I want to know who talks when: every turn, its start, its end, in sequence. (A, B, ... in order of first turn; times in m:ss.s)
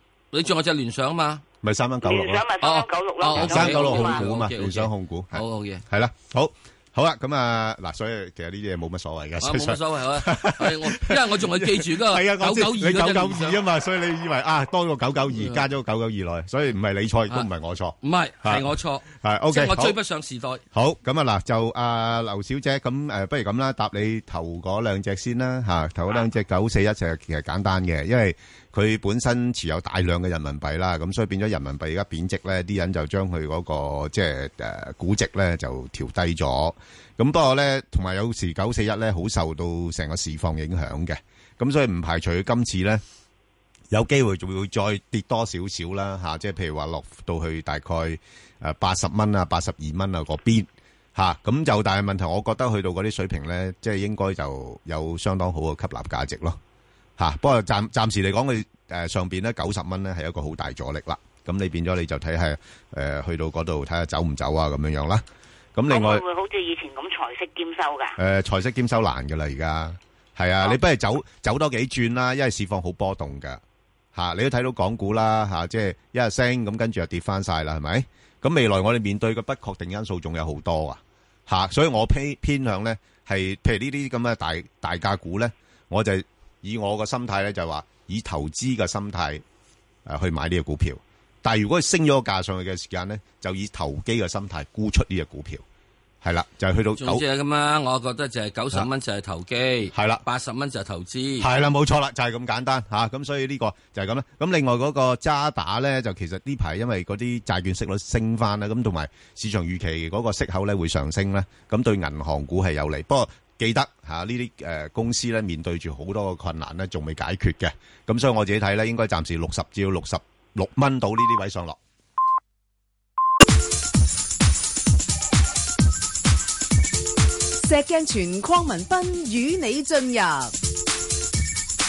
0:00.3-0:01.4 A
0:01.6-0:02.4 B
0:02.0-0:04.2 C
0:02.6-0:05.8 A
0:03.3-0:20.0 B
0:09.4-0:13.6 A
0:15.4-0:15.6 A
0:18.0-0:20.6 A
0:20.7-0:43.0 B
0:43.9-0:56.6 B
0:57.2-1:05.2 B
1:05.8-1:06.2 B
1:05.9-1:08.2 C
1:08.2-1:13.6 B
1:14.1-1:29.4 B
1:30.1-1:35.6 B
1:36.2-1:37.2 B
1:37.0-1:41.5 A
1:39.9-1:40.2 B
1:41.4-2:01.8 B
2:07.6-2:10.5 D